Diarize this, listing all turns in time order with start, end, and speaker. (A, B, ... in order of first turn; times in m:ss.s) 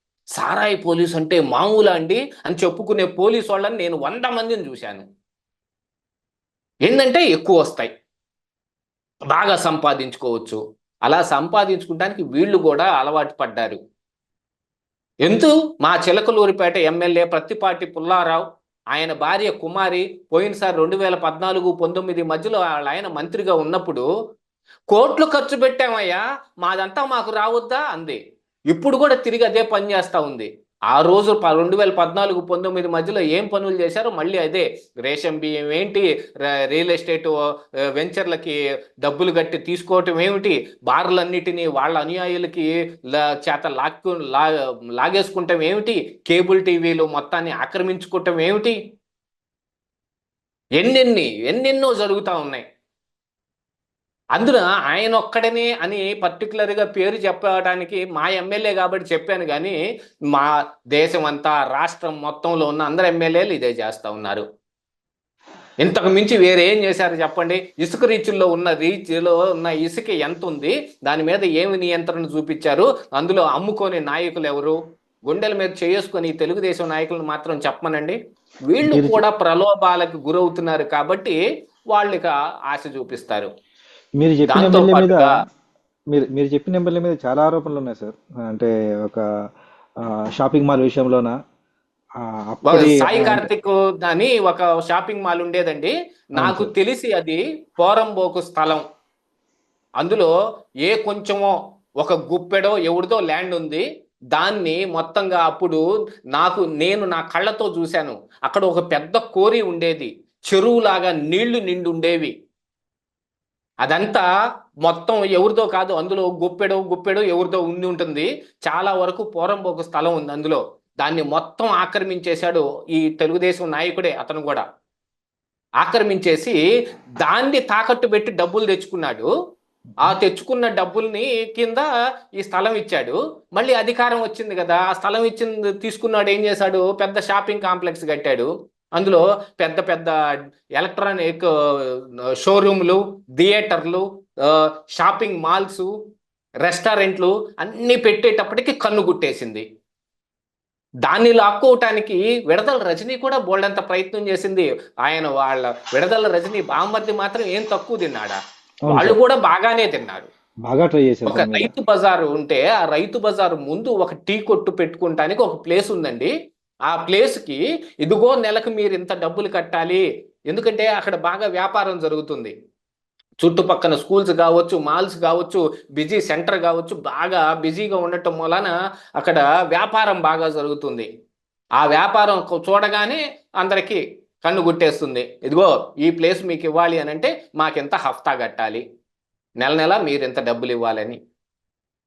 0:00.4-0:05.0 A
0:06.9-0:07.9 A
0:09.3-0:13.8 A
0:15.2-0:24.0 A
0:24.9-0:28.2 A
0:28.7-0:37.4 A
0:38.0-0:48.8 A
0:50.8-0:52.6 A
0:54.4-0:59.8 A
1:00.3-1:04.4 A
1:05.8-1:14.8 A
1:15.3-1:18.2 A
1:18.7-1:21.4 A
1:18.9-1:19.2 B
1:21.9-1:23.5 A
1:24.2-1:25.3 B
1:24.5-1:25.3 A
1:26.1-1:29.2 B
1:30.4-1:31.3 B
1:32.5-1:33.5 B
1:32.7-1:38.8 A
1:36.4-1:36.7 B
1:40.0-1:40.3 A
1:40.8-1:45.8 A
1:46.3-1:52.3 A
1:53.8-1:54.2 A
1:54.8-2:04.6 A
2:05.8-2:06.6 A
2:07.2-2:09.3 A
2:10.0-2:11.8 A
2:12.4-2:20.2 A
2:20.8-2:25.9 A
2:26.6-2:29.6 A
2:31.0-2:38.4 A
2:38.9-2:39.2 B
2:38.9-2:40.3 A
2:40.7-2:41.7 B
2:41.3-2:46.3 A
2:46.9-2:52.5 A
2:53.4-3:01.1 A
3:01.8-3:08.8 A
3:09.6-3:11.2 A